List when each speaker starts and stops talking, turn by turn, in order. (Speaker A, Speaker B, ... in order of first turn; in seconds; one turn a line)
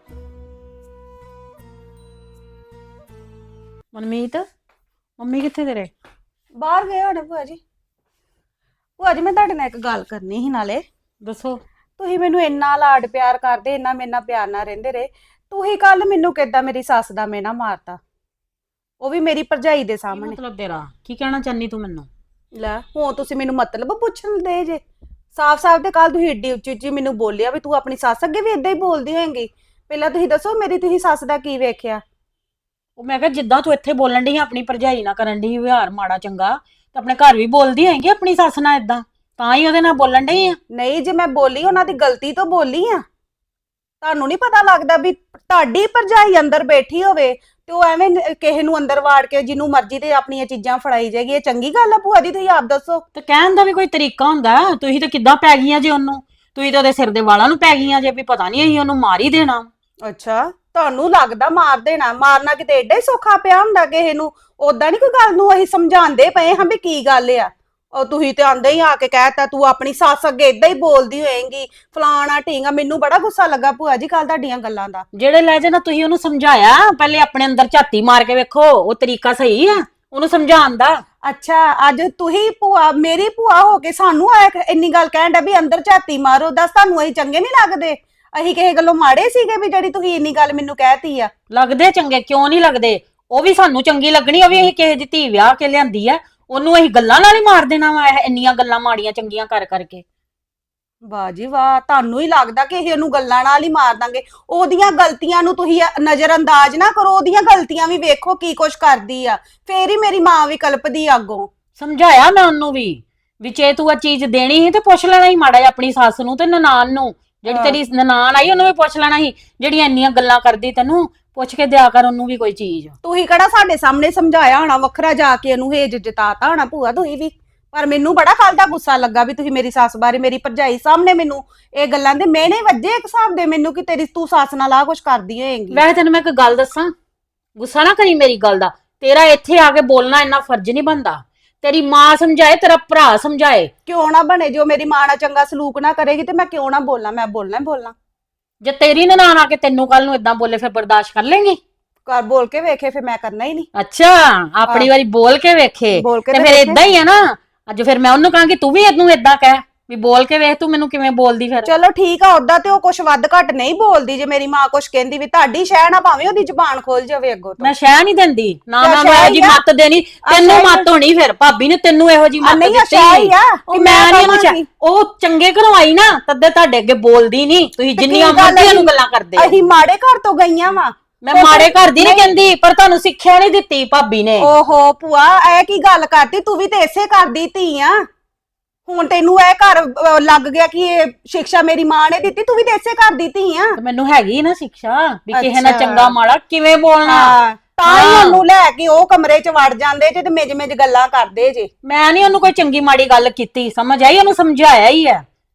Speaker A: 3.9-4.5
Speaker A: 5.2-5.9
Speaker B: 6.6-7.6
Speaker B: 9.0-10.8
Speaker A: 11.2-11.6
Speaker B: 12.0-18.0
Speaker B: 19.0-20.4
Speaker A: 20.1-22.1
Speaker B: 22.6-24.8
Speaker B: 25.4-32.0
Speaker A: 33.0-40.6
Speaker B: 40.7-43.0
Speaker B: 44.0-53.0
Speaker A: 53.2-59.7
Speaker B: 60.1-75.0
Speaker A: 75.1-81.0
Speaker B: 81.3-91.3
Speaker A: 91.5-100.0
Speaker B: 101.1-111.5
Speaker A: 111.8-122.9
Speaker B: 117.5-117.8
Speaker B: 123.0-135.8
Speaker A: 135.7-136.9
Speaker A: 137.6-143.7
Speaker B: 143.9-147.9
Speaker A: 148.6-151.6
Speaker B: 152.1-153.7
Speaker A: 153.8-161.7
Speaker B: 155.9-156.8
Speaker B: 161.7-167.7
Speaker A: 167.6-179.6
Speaker B: 168.8-169.6
Speaker B: 170.3-170.9
Speaker B: 172.4-174.6
Speaker B: 178.0-182.2
Speaker A: 181.2-184.5
Speaker B: 184.4-188.0
Speaker B: 188.9-193.7
Speaker A: 193.8-197.3
Speaker B: 195.3-196.1
Speaker B: 197.1-201.7
Speaker A: 197.9-198.4
Speaker A: 201.8-205.2